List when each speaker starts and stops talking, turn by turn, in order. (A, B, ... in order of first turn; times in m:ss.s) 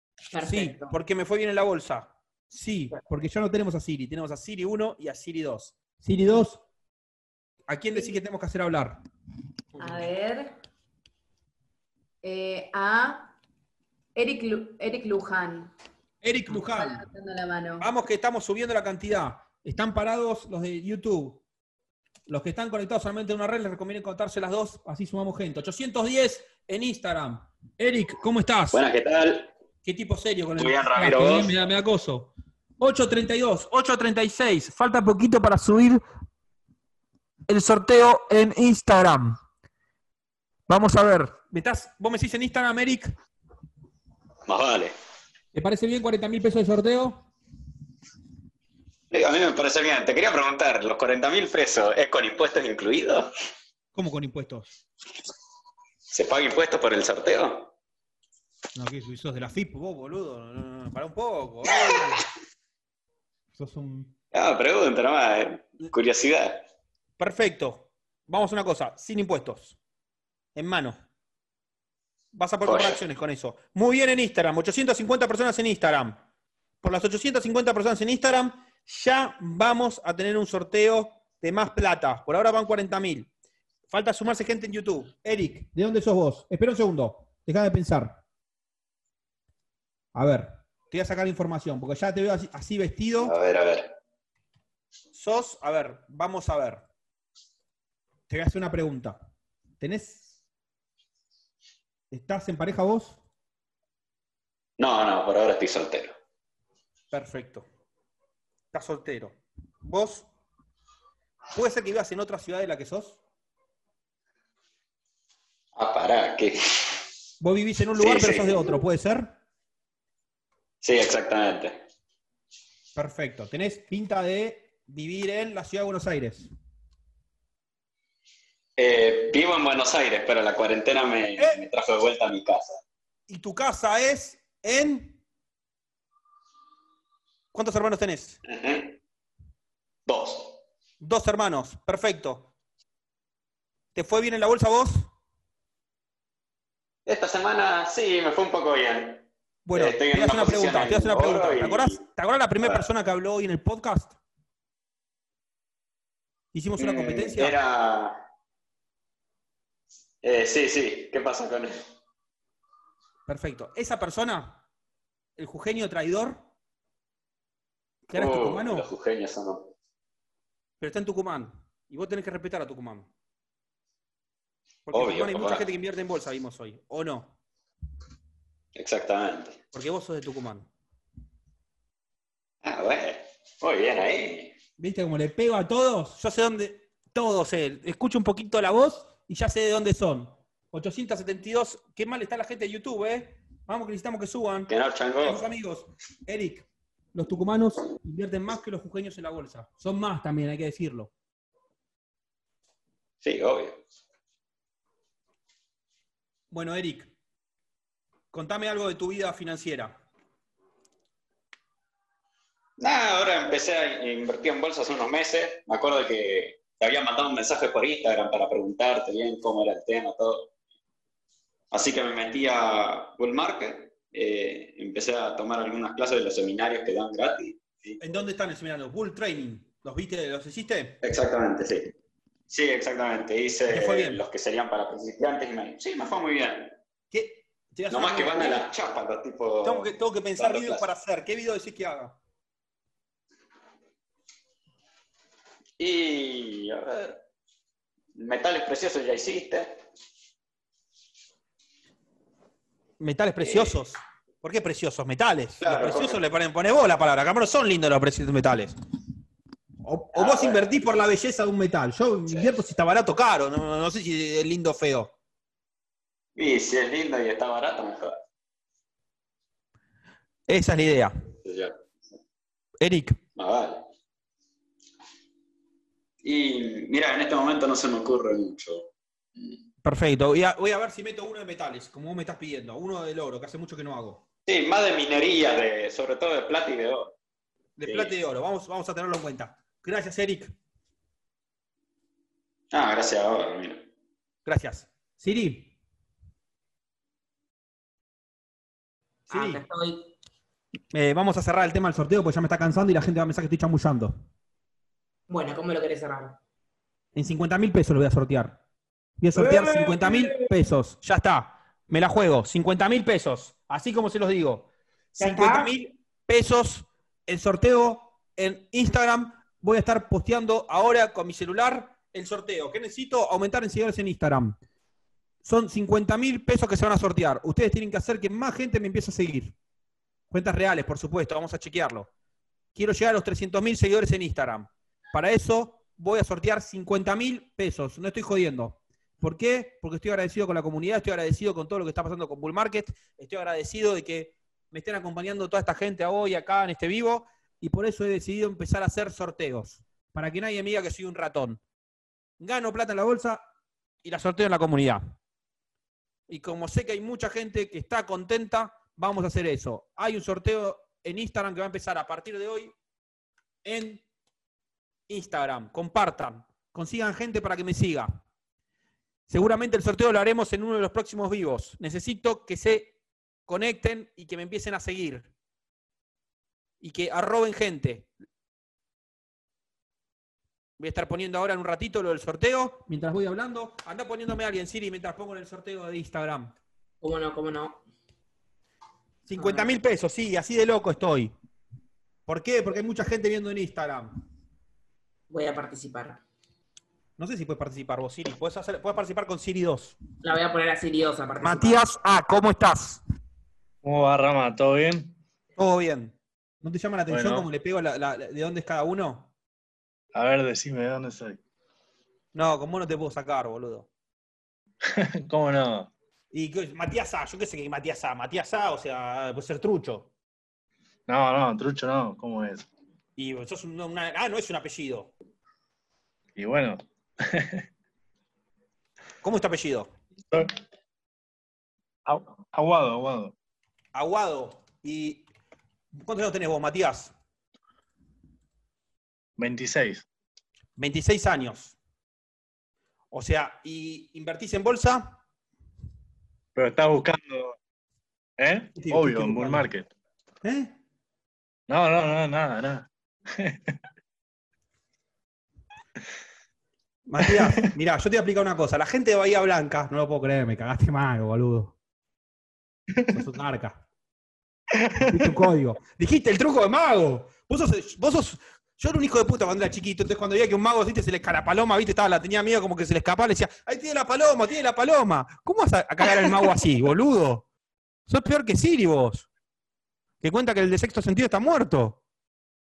0:00.3-0:01.0 A
0:00.4-0:06.6 B
0:07.7-0:09.0 B
0:09.8-0:10.1 B
0:09.8-0:10.5 C
0:12.2-0:13.3 C
0:14.2-0:15.7 C
0:16.2-0:17.1 B
0:16.5-0:17.9 C
0:17.8-0:21.4 B
0:22.3-0:28.8 B
0:28.7-0:29.5 D
0:29.8-0:36.0 B
0:30.6-0:31.6 D
0:37.5-0:39.4 B
0:40.7-0:43.1 B
0:44.5-0:44.9 D
0:45.5-0:47.3 B
0:49.1-0:53.3 D
0:54.0-0:54.7 B
0:56.1-0:57.7 D
0:58.8-1:02.3 B
1:03.6-1:04.1 B
1:04.3-1:06.6 D
1:07.2-1:09.8 B
1:10.6-1:11.0 B
1:12.3-1:16.2 B
1:12.6-1:13.0 D
1:16.8-1:23.3 B
1:23.9-1:28.2 B
1:30.2-1:33.3 B
1:33.2-1:33.9 D
1:35.1-1:36.8 B
1:38.3-1:39.2 B
1:39.8-1:40.4 B
1:42.1-1:43.2 B
1:44.8-1:46.2 D
1:47.1-1:47.6 B
1:48.7-1:50.3 B
1:51.5-1:53.2 B
1:55.8-1:56.9 D
1:57.4-1:59.4 B
1:58.0-1:58.8 D
2:00.8-2:01.8 D
2:03.0-2:06.5 B
2:08.8-2:12.8 D
2:11.4-2:11.6 B
2:13.3-2:15.2 B
2:17.5-2:18.4 B
2:18.4-2:19.0 D
2:20.1-2:20.6 D
2:21.0-2:22.5 B
2:24.0-2:25.1 B
2:27.1-2:32.0 D
2:29.7-2:34.2 B
2:36.5-2:37.6 B
2:36.8-2:38.2 D
2:40.2-2:41.8 D
2:43.3-2:44.6 B
2:45.4-2:46.4 B
2:48.1-2:48.9 B
2:48.1-2:49.7 D
2:50.8-2:53.1 B
2:54.9-2:57.3 B
2:54.9-2:55.6 D
2:58.8-2:59.6 D
2:59.7-3:00.7 B
3:02.6-3:04.5 D
3:04.8-3:14.7 B
3:14.7-3:15.4 D
3:15.2-3:21.1 B
3:23.2-3:23.8 D
3:26.5-3:27.1 B
3:28.3-3:30.0 B
3:32.8-3:40.5 D
3:41.7-3:48.0 D
3:48.0-3:51.0 B
3:51.0-3:51.9 D
3:52.5-3:56.8 D
3:53.7-3:54.2 B
3:57.1-3:58.7 B
3:57.9-4:00.8 D
3:59.6-4:02.2 B
4:05.8-4:07.2 D
4:08.2-4:09.8 D
4:13.0-4:18.8 B
4:13.4-4:13.8 D
4:15.6-4:16.2 D
4:19.8-4:25.1 B
4:20.1-4:20.6 D
4:22.3-4:22.6 D
4:26.4-4:28.2 D
4:30.5-4:31.1 B
4:31.4-4:31.8 D
4:32.8-4:33.2 B
4:33.4-4:33.8 D
4:36.2-4:39.6 D
4:39.8-4:44.2 B
4:44.5-4:47.1 D
4:47.8-4:50.5 B
4:47.8-4:48.1 D
4:52.7-4:53.8 D
4:54.5-4:55.7 B
4:59.3-5:00.1 A
4:59.3-4:59.6 B
5:00.9-5:04.2 B
5:05.3-5:06.4 A
5:07.2-5:08.6 B
5:09.2-5:24.6 B
5:09.4-5:10.1 A
5:15.2-5:15.7 A
5:25.4-5:29.5 B
5:30.3-5:32.1 B
5:32.8-5:51.6 B
5:52.4-5:53.4 B
5:54.0-5:55.0 B
5:56.3-6:02.7 B
6:03.6-6:04.0 B
6:05.1-6:08.2 B
6:09.3-6:13.0 B
6:13.5-6:15.3 B
6:16.8-6:18.1 B
6:20.8-6:26.5 B
6:27.0-6:27.8 A
6:29.3-6:31.3 B
6:29.4-6:29.7 A
6:32.3-6:34.1 B
6:35.3-6:36.2 A
6:37.2-6:40.0 B
6:40.2-6:41.8 A
6:41.4-6:43.0 B
6:43.8-6:45.1 E
6:45.6-6:49.3 B
6:47.1-6:47.5 E
6:50.1-6:51.4 E
6:52.3-6:53.9 B
6:55.0-6:55.9 E
6:56.3-7:00.1 B
7:01.1-7:02.7 E
7:03.2-7:05.1 B
7:06.4-7:07.6 E
7:09.2-7:09.9 B
7:12.1-7:13.3 E
7:13.9-7:15.3 B
7:16.0-7:17.1 B
7:19.4-7:20.0 E
7:20.8-7:21.8 B
7:23.1-7:25.2 B
7:26.6-7:27.6 E
7:28.4-7:29.9 E
7:28.8-7:29.7 B
7:30.4-7:30.8 B
7:31.7-7:32.9 E
7:33.4-7:33.7 E
7:37.1-7:41.7 B
7:37.2-7:37.7 E
7:43.0-7:43.2 E
7:43.1-7:43.8 B
7:44.8-7:45.5 E
7:45.0-7:57.4 B
7:58.1-7:59.3 B
8:00.2-8:02.0 B